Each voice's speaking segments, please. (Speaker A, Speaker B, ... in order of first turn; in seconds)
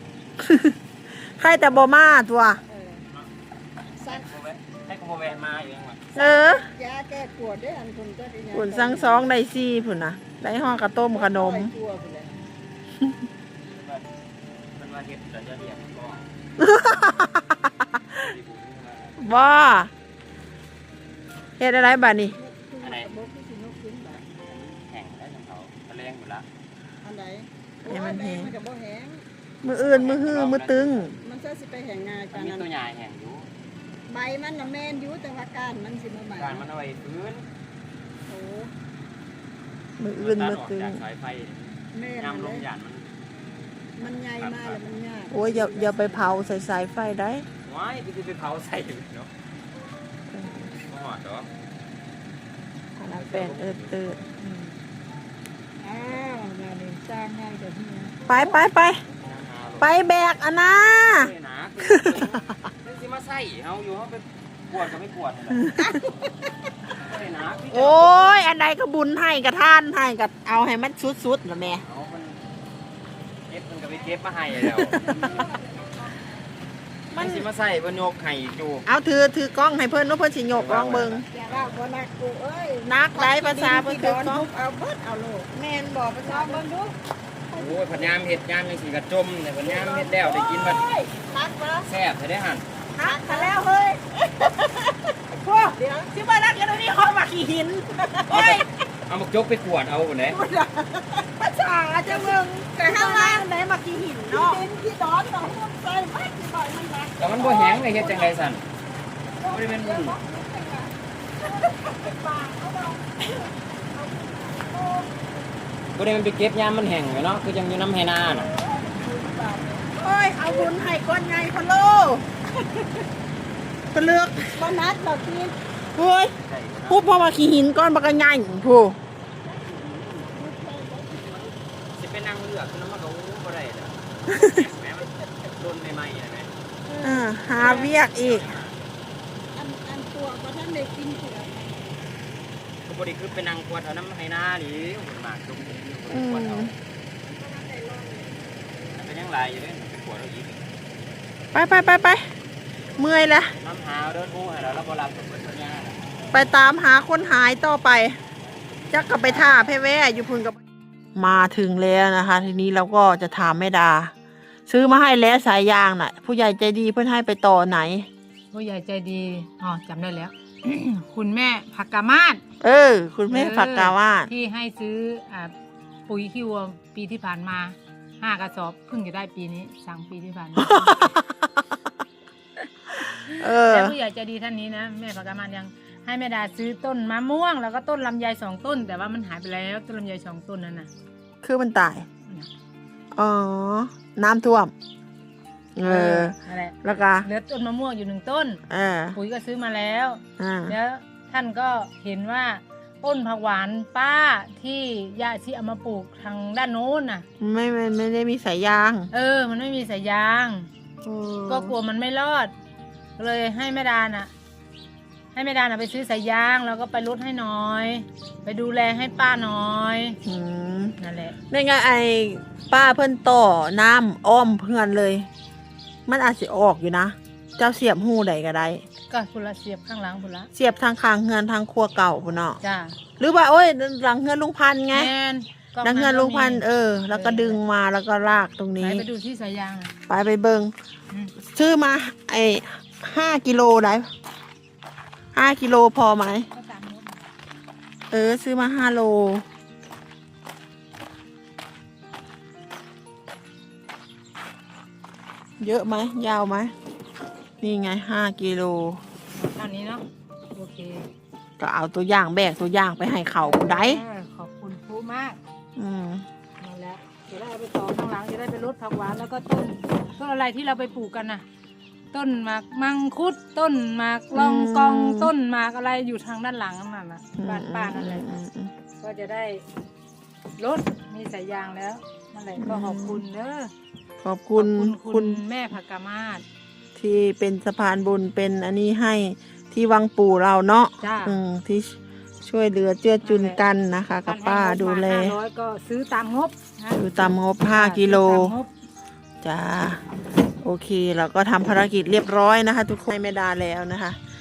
Speaker A: 0.4-2.6, 6.2-6.7, 8.5-11.7, 16.6-18.2, 19.2-19.9, 21.6-22.4, 27.9-28.5, 29.6-31.1, 40.0-41.0, 45.3-47.5, 50.3-50.8, 53.0-54.2, 58.2-59.0, 59.8-62.6, 67.7-71.8, 74.8-75.3, 77.1-77.5, 78.8-81.2, 82.8-84.5, 85.5-86.6, 92.9-94.0, 95.4-98.7, 101.4-104.7, 119.9-122.2, 123.9-124.7, 125.9-126.4, 126.9-129.0, 137.0-138.5, 146.1-146.7, 151.5-152.3, 153.0-153.6, 156.3-158.2, 158.9-160.6, 161.1-164.1, 164.7-168.1, 172.6-174.3, 180.6-181.4, 182.9-184.0, 191.4-192.1, 193.1-194.7, 195.8-197.3, 198.7-199.2, 200.4-200.8, 207.4-209.1, 211.0-211.8, 220.2-221.0, 221.5-225.3, 226.1-228.8, 230.5-232.6, 233.2-235.1, 235.8-239.1, 240.1-240.7, 241.3-244.1, 245.3-246.5, 248.1-249.4, 255.6-256.7, 257.6-259.0, 261.6-264.0, 265.8-266.2, 274.3-275.3, 277.4-278.7, 282.6-283.2, 284.2-285.4, 286.9-295.4, 296.9-298.6, 299.4-300.0, 300.6-304.2
Speaker B: 2.7-3.0, 4.0-4.3, 6.1-9.3, 11.0-12.4, 22.3-24.2, 27.0-29.2, 31.2-32.7, 34.0-36.6, 38.3-38.7, 41.9-42.6, 43.9-46.5, 55.8-58.1, 65.8-66.5, 74.9-76.4, 81.3-85.5, 86.2-87.0, 87.5-88.2, 89.7-91.9, 93.0-93.6, 94.2-95.2, 100.3-101.3, 102.0-103.5, 104.2-108.4, 109.4-115.5, 118.2-119.9, 120.5-120.7, 124.5-125.6, 129.4-131.5, 136.8-138.0, 139.5-142.1, 147.2-148.8, 156.2-156.5
Speaker C: 3.9-6.0, 13.6-14.1, 14.8-16.3, 18.1-19.2, 22.8-23.1, 24.2-26.5, 29.7-31.1, 32.3-33.5, 36.4-37.5, 40.2-43.1, 44.3-44.8, 47.6-49.3, 50.9-51.5, 53.1-54.0, 59.1-59.9, 61.1-65.7, 67.0-68.2, 71.8-72.4, 73.5-75.0, 77.2-78.8, 80.5-81.7, 87.5-90.9, 91.8-92.7, 98.3-100.4, 107.2-108.6, 109.4-110.2, 115.9-118.5, 126.4-127.0, 131.9-136.5, 137.5-138.8, 142.8-146.7, 148.9-150.7, 153.6-156.0, 158.4-159.7
Speaker D: 54.4-54.8, 168.5-172.4, 173.3-175.5, 176.1-181.1, 183.3-190.9, 192.2-192.5, 195.8-198.6, 199.1-207.2, 209.1-210.7, 211.5-212.5, 213.2-214.3, 215.3-220.2, 221.0-221.4, 229.1-230.5, 232.6-233.0, 234.9-237.6, 238.8-239.9, 246.5-247.3, 259.3-261.1, 263.4-265.4, 266.6-271.4, 272.1-278.4, 279.0-279.6, 280.6-283.7, 284.5-286.4, 291.0-291.4, 293.2-293.6, 294.2-298.7